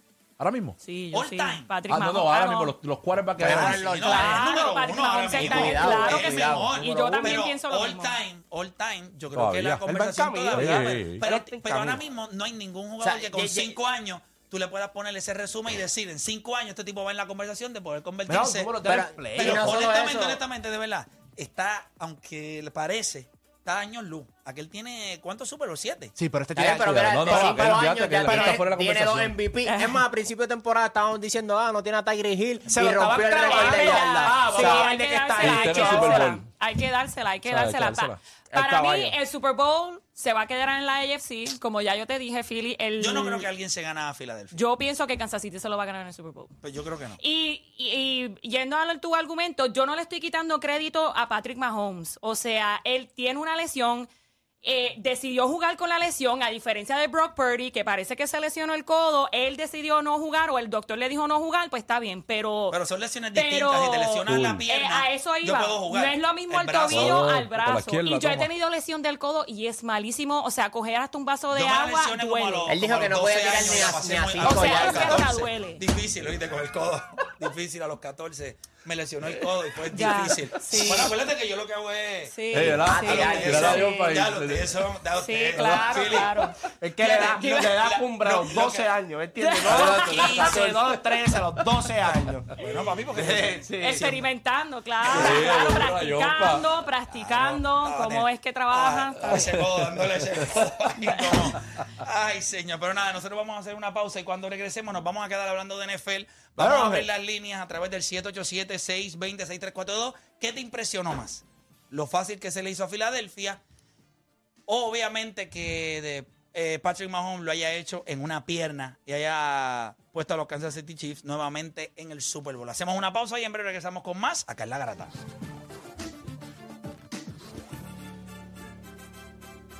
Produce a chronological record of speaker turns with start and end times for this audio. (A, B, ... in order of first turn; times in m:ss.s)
0:00.4-0:00.8 A
0:00.8-0:02.7 B
0:01.1-0:01.7 C
0:01.9-0:03.9 A
0:03.4-0:07.4 D
0:03.4-0:18.7 C
0:04.0-0:08.2 B
0:09.3-0:09.8 A
0:09.9-0:12.0 E
0:10.5-0:11.2 A
0:13.0-0:13.8 D
0:18.3-0:19.7 E
0:18.8-0:20.4 D
0:19.4-0:26.2 C
0:26.2-0:28.7 E
0:26.5-0:34.8 D
0:26.8-0:29.4 A
0:29.6-0:30.0 B
0:32.7-0:36.4 E
0:33.4-0:43.4 B
0:35.4-0:36.5 A
0:37.5-0:38.2 A
0:38.5-0:39.1 E
0:43.0-0:44.6 C
0:44.5-0:46.5 B
0:46.6-0:47.2 C
0:47.2-0:54.1 B
0:54.6-1:02.8 B
1:02.7-1:07.2 C
1:03.3-1:12.8 B
1:04.3-1:04.6 A
1:06.9-1:08.5 A
1:11.5-1:26.5 C
1:12.7-1:15.4 D
1:14.4-1:15.8 B
1:19.9-1:21.1 B
1:22.3-1:24.1 B
1:22.5-1:24.8 A
1:22.8-1:23.8 D
1:25.2-1:26.5 B
1:25.6-1:25.9 A
1:26.8-1:32.6 E
1:27.0-1:28.9 C
1:29.4-1:30.6 B
1:29.6-1:31.7 A
1:29.7-1:30.7 C
1:32.6-1:34.1 C
1:33.1-1:34.2 E
1:33.8-1:39.5 B
1:35.0-1:35.8 C
1:35.1-1:36.7 A
1:37.1-1:53.6 C
1:39.2-1:40.9 A
1:46.6-1:47.1 E
1:54.7-2:05.1 C